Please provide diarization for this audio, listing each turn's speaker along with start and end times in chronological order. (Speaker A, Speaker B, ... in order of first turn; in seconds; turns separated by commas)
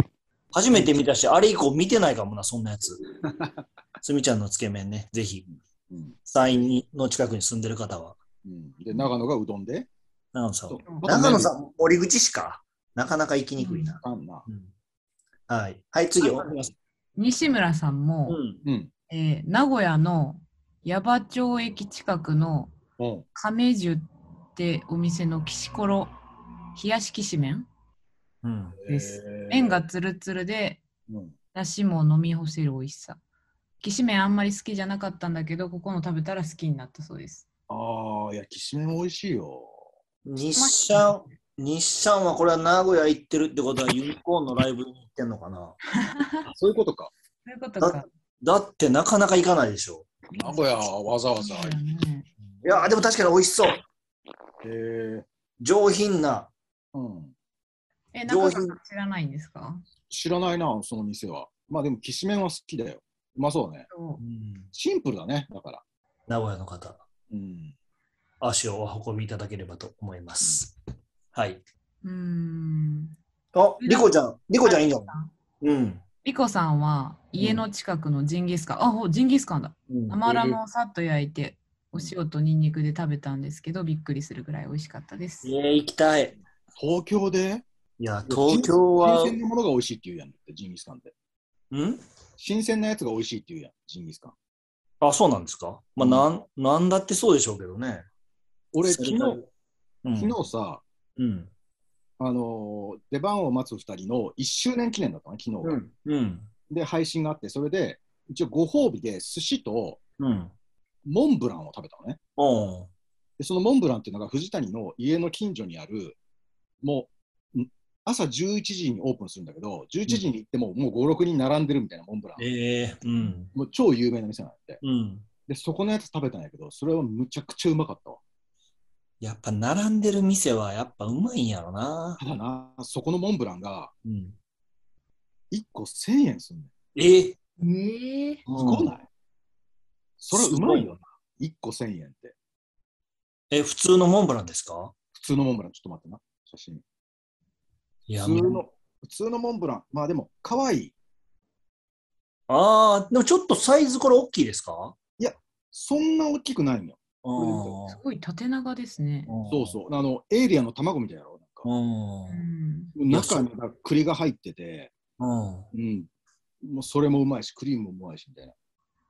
Speaker A: 0.5-3.0, Speaker B: 0.7-1.1, Speaker B: 3.2-3.5, Speaker A: 4.0-5.5, Speaker B: 5.5-6.2, Speaker A: 6.2-8.2, Speaker B: 8.4-9.9, Speaker A: 10.3-14.7, Speaker B: 10.7-11.5, Speaker C: 13.6-13.9, Speaker B: 14.0-14.4, Speaker A: 15.5-16.6, Speaker C: 16.2-16.6, Speaker C: 17.1-18.4, Speaker A: 18.3-18.6, Speaker B: 18.6-18.9, Speaker C: 19.1-22.7, Speaker B: 23.0-23.2, Speaker C: 23.3-26.1, Speaker C: 26.7-27.7, Speaker A: 28.4-28.8, Speaker B: 28.8-29.8, Speaker C: 28.9-30.8, Speaker B: 31.1-31.3, Speaker C: 31.5-33.2, Speaker C: 33.8-37.5, Speaker B: 37.7-39.9, Speaker A: 40.2-45.8, Speaker C: 40.5-41.3, Speaker C: 46.0-46.5, Speaker B: 46.5-47.1, Speaker C: 47.4-48.0, Speaker A: 47.8-50.1, Speaker B: 50.4-51.8, Speaker C: 50.4-50.7, Speaker C: 51.4-52.9, Speaker A: 52.6-53.8, Speaker B: 54.6-55.3, Speaker A: 55.6-56.5, Speaker B: 56.9-57.3, Speaker C: 58.1-59.8, Speaker A: 58.3-58.8, Speaker B: 60.1-63.9, Speaker C: 63.9-64.2, Speaker A: 64.2-64.7, Speaker B: 64.7-65.8, Speaker A: 66.3-67.0, Speaker B: 67.3-67.7, Speaker A: 68.4-70.7, Speaker A: 71.3-71.6, Speaker C: 72.0-73.1, Speaker A: 73.5-76.0, Speaker C: 73.8-75.3, Speaker C: 76.2-85.5, Speaker A: 79.9-80.5, Speaker A: 85.4-86.4, Speaker B: 86.8-87.6, Speaker A: 88.0-89.3, Speaker B: 88.3-91.1, Speaker A: 91.7-92.0, Speaker B: 92.4-94.3, Speaker A: 95.0-98.0, Speaker B: 96.0-96.2, Speaker B: 98.7-99.4, Speaker A: 98.8-99.5, Speaker A: 100.0-100.4, Speaker B: 100.2-100.8, Speaker A: 101.2-101.5, Speaker B: 102.2-105.8, Speaker A: 105.6-106.5, Speaker B: 106.7-110.0, Speaker A: 110.2-110.5, Speaker B: 111.0-112.2, Speaker A: 112.4-112.9, Speaker B: 113.4-116.2, Speaker B: 116.8-122.4, Speaker A: 122.4-123.5, Speaker B: 123.5-124.8, Speaker A: 124.8-125.3, Speaker B: 125.5-128.2, Speaker A: 129.2-132.2, Speaker B: 132.2-133.9, Speaker A: 134.0-134.4, Speaker B: 135.5-136.7, Speaker A: 136.9-137.3, Speaker C: 137.6-138.4, Speaker A: 138.4-138.9, Speaker B: 138.5-139.1, Speaker B: 140.2-142.3, Speaker A: 140.3-140.9, Speaker A: 143.5-144.9, Speaker B: 145.1-146.8, Speaker A: 148.1-148.6, Speaker B: 148.2-150.9, Speaker A: 152.5-154.9, Speaker B: 155.2-157.8, Speaker A: 157.2-158.0, Speaker C: 157.8-159.3, Speaker A: 159.3-159.8, Speaker B: 159.5-161.7, Speaker A: 161.6-162.4, Speaker C: 162.3-162.9, Speaker B: 162.9-164.9, Speaker A: 163.1-163.4, Speaker A: 165.2-165.7, Speaker B: 165.7-166.1, Speaker B: 166.6-168.5